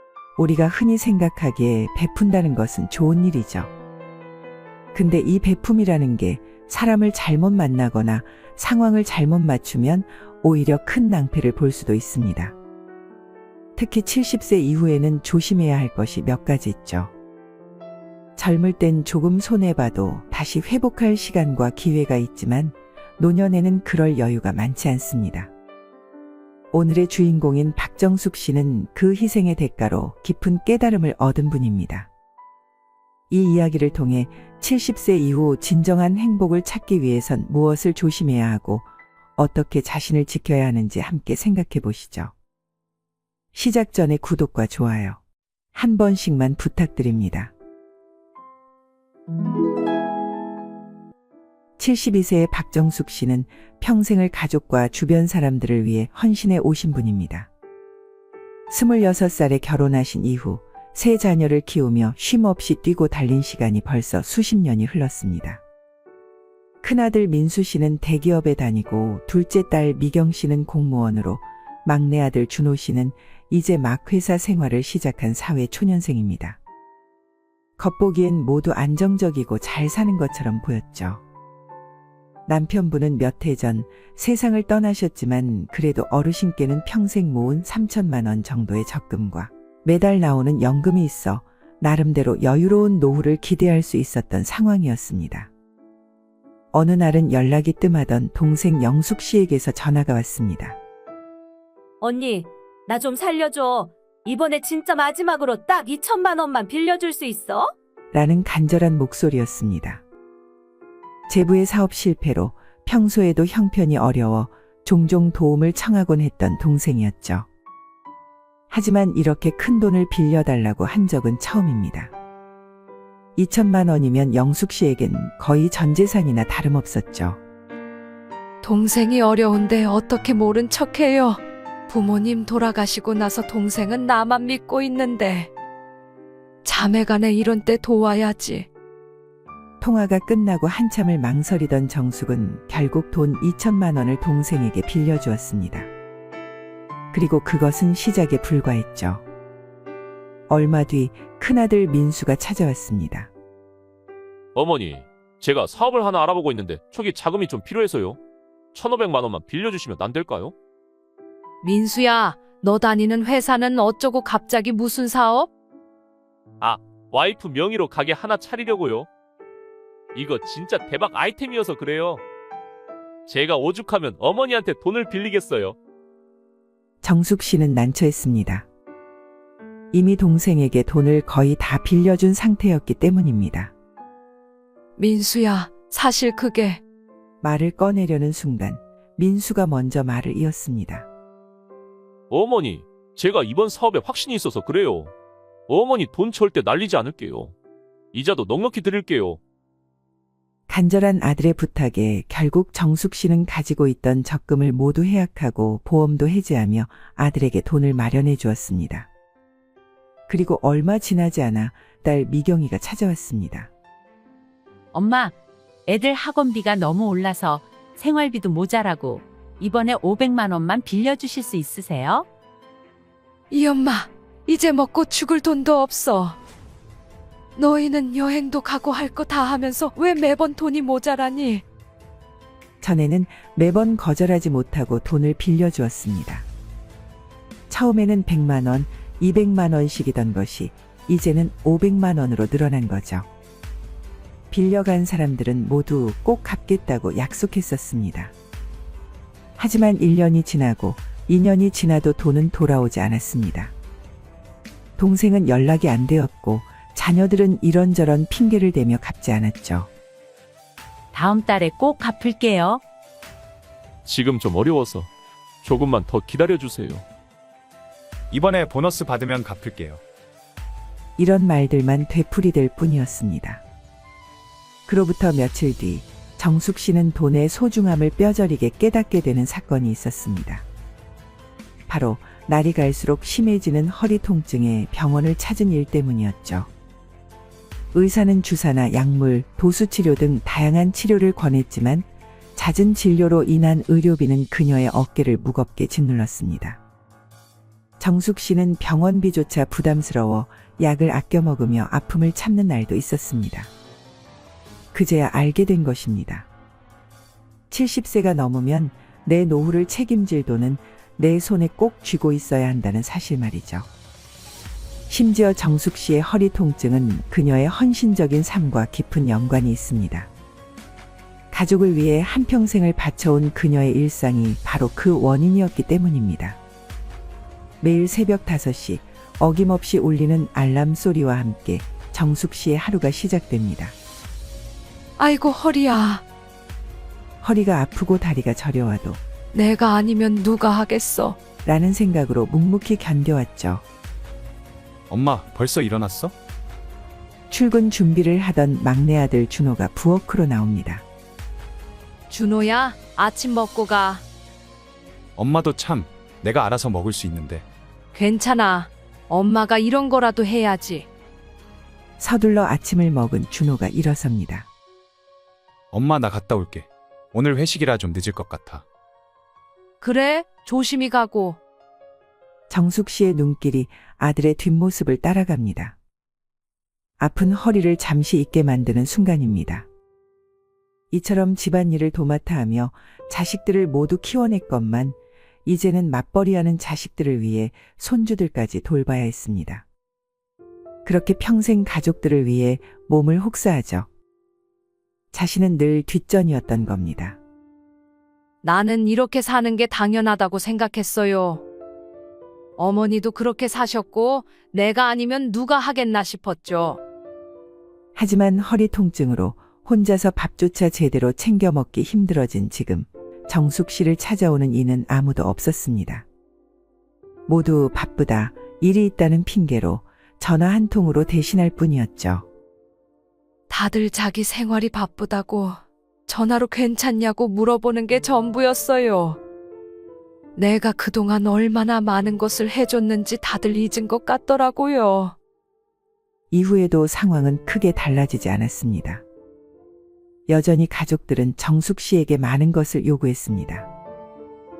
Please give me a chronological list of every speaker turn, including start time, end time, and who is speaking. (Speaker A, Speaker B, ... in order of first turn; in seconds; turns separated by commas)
Speaker A: 0.4-3.7, Speaker A: 4.9-12.5, Speaker A: 13.8-17.1, Speaker A: 18.4-25.5, Speaker A: 26.7-32.1, Speaker A: 33.3-42.3, Speaker A: 43.5-45.2, Speaker A: 45.7-47.5, Speaker A: 51.8-57.5, Speaker A: 58.7-65.6, Speaker A: 66.8-76.6, Speaker A: 77.8-81.2, Speaker A: 82.5-95.5, Speaker A: 96.7-100.8, Speaker B: 102.0-107.7, Speaker A: 108.1-110.0, Speaker A: 111.3-117.5, Speaker A: 118.7-122.1, Speaker A: 123.3-127.4, Speaker C: 128.6-135.5, Speaker C: 136.6-138.7, Speaker A: 139.8-145.9, Speaker A: 147.1-149.2, Speaker A: 150.5-153.3, Speaker D: 154.5-158.2, Speaker D: 158.7-160.5, Speaker C: 161.6-165.5, Speaker D: 166.6-169.1, Speaker D: 170.1-172.2, Speaker D: 173.3-175.8, Speaker A: 177.0-178.7, Speaker A: 179.9-183.7, Speaker C: 185.0-186.8, Speaker A: 187.4-191.1, Speaker D: 192.3-195.1, Speaker D: 195.7-197.5, Speaker D: 198.1-199.4, Speaker A: 200.7-209.1, Speaker A: 210.3-213.7, Speaker E: 214.9-215.3, Speaker E: 215.9-222.2, Speaker C: 223.5-226.3, Speaker C: 227.6-231.6, Speaker A: 232.8-236.5, Speaker A: 237.7-243.3, Speaker A: 244.5-248.3, Speaker A: 249.6-253.7, Speaker A: 255.0-259.9, Speaker E: 261.1-262.8, Speaker D: 264.0-265.1, Speaker D: 265.6-267.0, Speaker F: 268.3-270.0, Speaker A: 271.2-273.6, Speaker A: 274.9-280.6, Speaker A: 281.9-286.7, Speaker A: 287.9-296.8, Speaker A: 298.0-303.7, Speaker A: 304.9-306.5, Speaker A: 307.7-313.9, Speaker A: 315.1-320.3, Speaker A: 321.5-326.6, Speaker A: 327.8-333.9, Speaker C: 335.2-336.2, Speaker A: 337.4-339.2, Speaker C: 339.5-341.4, Speaker A: 341.6-343.8, Speaker F: 345.1-346.3, Speaker A: 347.5-351.0, Speaker C: 352.3-354.2, Speaker F: 355.4-357.6, Speaker C: 358.1-361.1, Speaker A: 362.2-364.7, Speaker F: 365.9-368.8, Speaker C: 370.0-371.6, Speaker A: 372.7-375.9, Speaker A: 377.2-379.9, Speaker A: 381.1-389.8, Speaker A: 391.0-394.1, Speaker A: 395.3-397.4, Speaker C: 398.6-401.6, Speaker C: 402.8-407.0, Speaker A: 408.1-416.2, Speaker A: 417.5-422.4, Speaker C: 423.7-429.4, Speaker C: 430.6-435.3, Speaker A: 436.5-439.2, Speaker A: 440.5-443.9